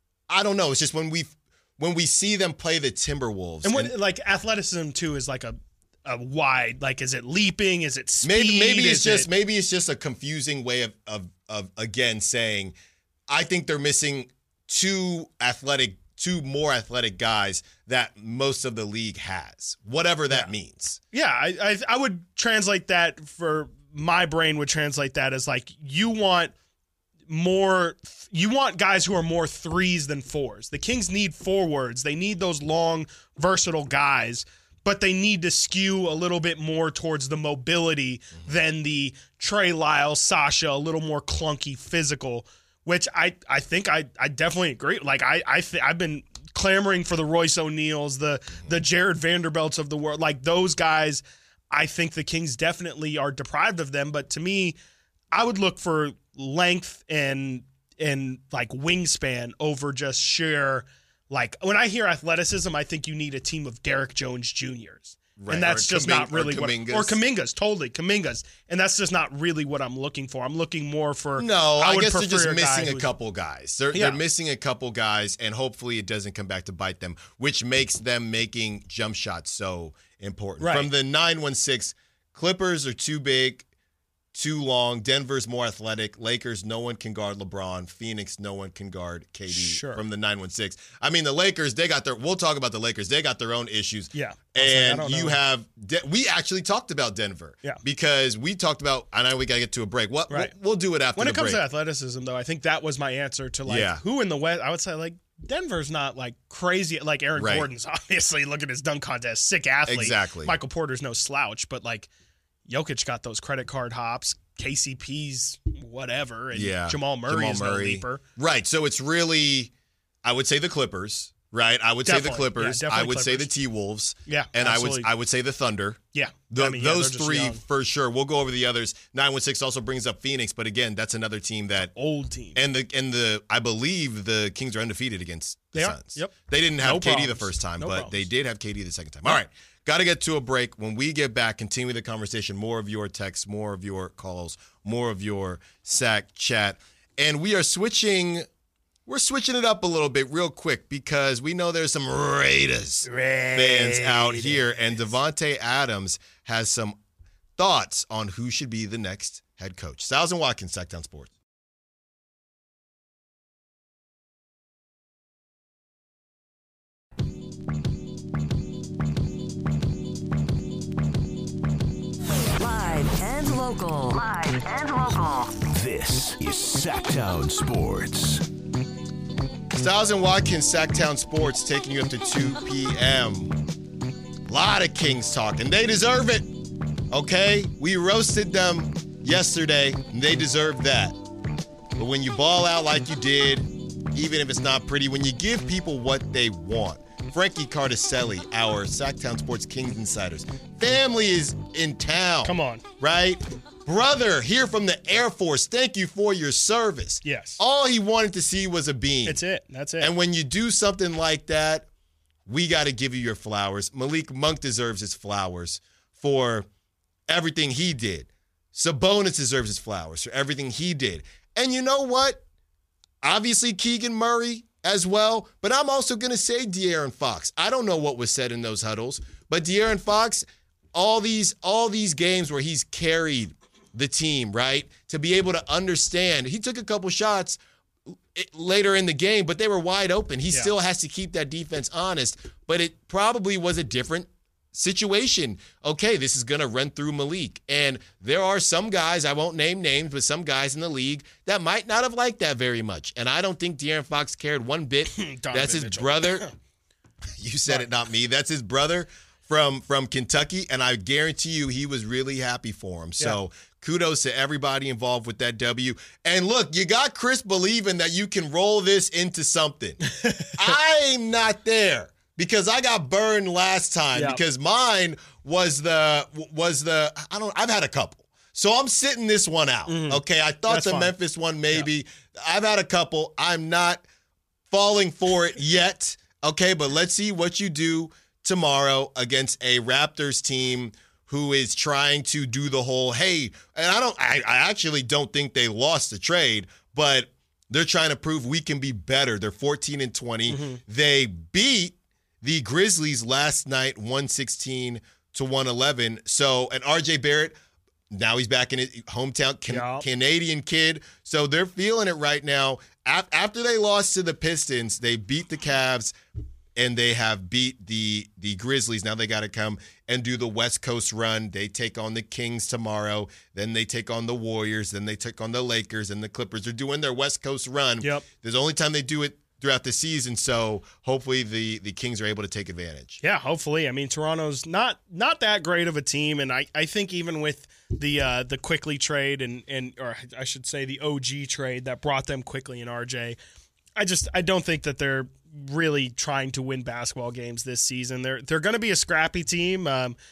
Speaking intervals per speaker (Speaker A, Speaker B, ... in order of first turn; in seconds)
Speaker A: 0.3-3.9, 8.2-12.8, 13.3-21.0, 65.4-67.2, 71.4-83.7, 84.3-101.6, 103.7-104.0, 107.3-107.7, 109.9-110.5, 116.5-119.7, 120.2-126.0, 126.5-131.9, 132.5-148.5, 149.1-157.0, 157.6-161.3, 179.7-183.6, 184.5-186.6, 187.1-191.2, 191.9-209.4, 210.0-211.9, 212.4-216.7, 217.3-222.4, 223.2-237.6, 238.1-256.5, 257.4-284.0, 284.7-307.6, 308.1-316.1, 316.8-333.2
Speaker B: 3.6-9.3, 21.1-26.5, 27.3-54.8, 55.3-73.1, 73.9-74.2, 80.6-80.9, 89.5-90.0, 94.1-95.4, 101.2-112.1, 112.7-118.2, 122.0-123.5, 124.3-125.1, 126.1-127.6, 131.9-132.6, 135.7-138.2, 153.1-154.6, 202.4-202.8, 207.2-207.6, 209.2-210.1, 255.1-256.5, 270.0-270.7, 274.1-274.4, 279.9-281.1, 300.5-300.8, 309.7-310.0, 333.2-343.4, 344.0-350.2
Speaker C: 172.6-175.5
Speaker D: 175.5-178.4